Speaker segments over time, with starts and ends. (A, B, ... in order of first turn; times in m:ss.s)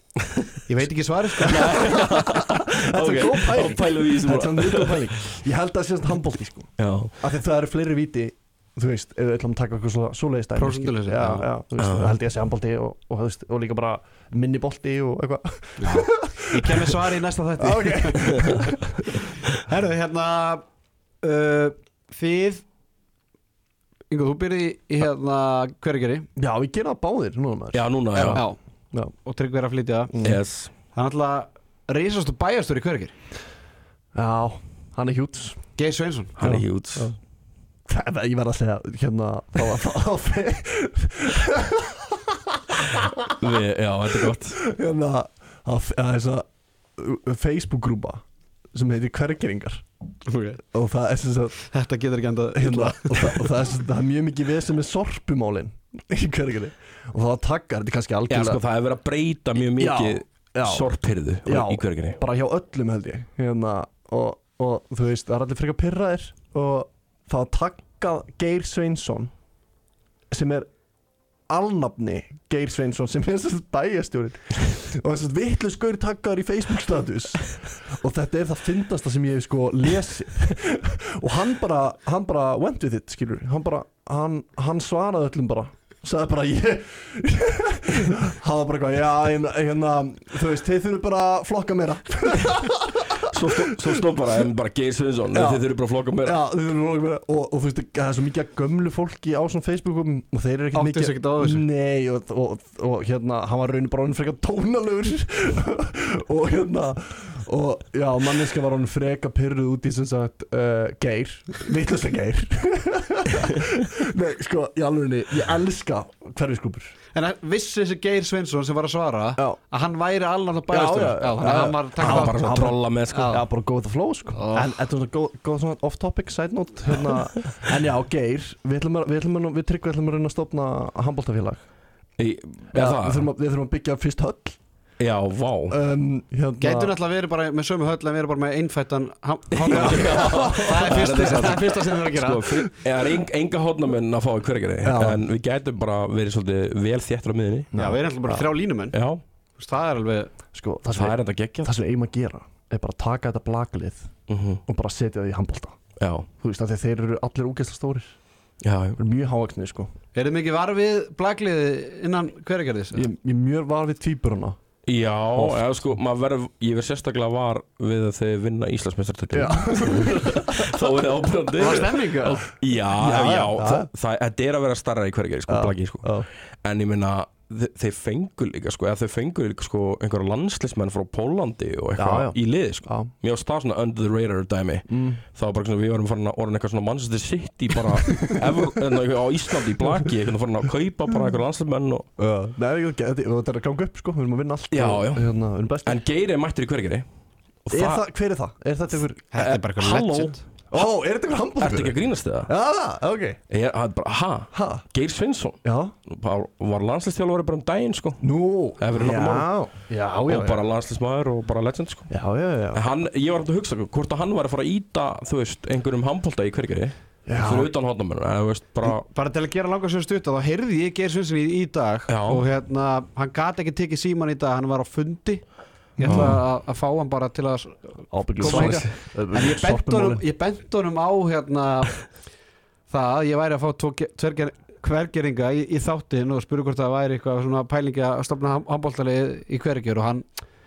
0:00.6-0:01.8 A
0:01.4-0:05.1 B
0:01.6-0:17.0 C
0:06.8-0:07.1 B
0:10.6-0:11.5 A
0:11.8-0:12.1 B
0:15.8-0:18.6 A
0:17.6-0:19.1 C
0:19.5-0:20.6 A
0:21.2-0:22.6 A
0:24.1-0:26.3 A
0:26.4-0:29.1 C
0:27.7-0:28.4 B
0:28.1-0:28.6 A
0:29.2-0:30.1 A
0:30.1-0:30.4 C
0:30.2-0:30.7 B
0:30.9-0:33.1 A
0:34.1-0:35.6 C
0:35.8-0:36.3 A
0:36.4-0:37.1 B
0:36.4-0:37.2 C
0:37.9-0:43.6 C
0:43.4-0:44.6 B
0:44.2-0:49.8 C
0:50.2-0:50.6 A
0:50.7-0:51.6 C
0:51.7-0:53.5 A
0:52.5-0:58.6 C
0:58.3-1:02.2 B
0:59.8-1:00.9 C
1:01.4-1:09.3 C
1:10.3-1:10.7 C
1:11.5-1:34.4 C
1:33.2-1:36.3 B
1:35.3-1:35.7 C
1:36.2-1:56.9 C
1:40.7-1:41.6 A
1:57.1-2:03.4 A
2:00.7-2:11.6 C
2:01.4-2:03.4 B
2:04.3-2:04.7 A
2:12.2-2:13.3 B
2:12.7-2:14.6 C
2:15.0-2:15.8 B
2:15.7-2:17.0 C
2:16.6-2:22.7 A
2:19.5-2:27.7 B
2:19.7-2:21.7 C
2:24.8-2:25.2 C
2:27.7-2:28.5 C
2:27.8-2:29.0 A
2:28.9-2:29.2 B
2:29.6-2:30.3 A
2:30.5-2:34.1 C
2:30.9-2:31.7 B
2:34.3-2:34.6 B
2:34.6-2:35.8 C
2:36.0-2:36.3 B
2:36.4-2:38.2 C
2:38.6-2:39.0 B
2:39.0-2:39.9 C
2:40.1-2:43.1 A
2:42.9-2:44.6 C
2:44.8-3:12.1 B
2:45.3-2:46.0 C
2:49.3-2:51.0 C
2:51.6-2:52.4 A
2:52.9-2:53.9 C
2:55.5-2:56.3 C
3:02.0-3:03.1 C
3:04.9-3:05.2 C
3:07.9-3:08.8 C
3:12.2-3:16.0 C
3:14.7-3:15.3 B
3:15.8-3:17.0 B
3:17.6-3:18.0 B
3:17.7-3:19.6 C
3:19.3-3:20.4 A
3:19.4-3:20.3 B
3:20.7-3:23.4 C
3:21.6-3:22.5 B
3:23.5-3:28.2 B
3:24.5-3:24.8 C
3:25.6-3:25.9 C
3:28.2-3:30.7 C
3:28.8-3:29.5 B
3:30.3-3:32.1 B
3:32.1-3:32.8 C
3:32.7-3:39.0 B
3:37.2-3:37.7 C
3:38.8-3:45.4 A
3:42.1-3:42.4 B
3:46.0-3:52.1 A
3:46.0-3:46.4 C
3:46.0-3:46.3 B
3:48.1-3:50.2 C
3:48.4-3:49.0 B
3:52.9-4:00.3 A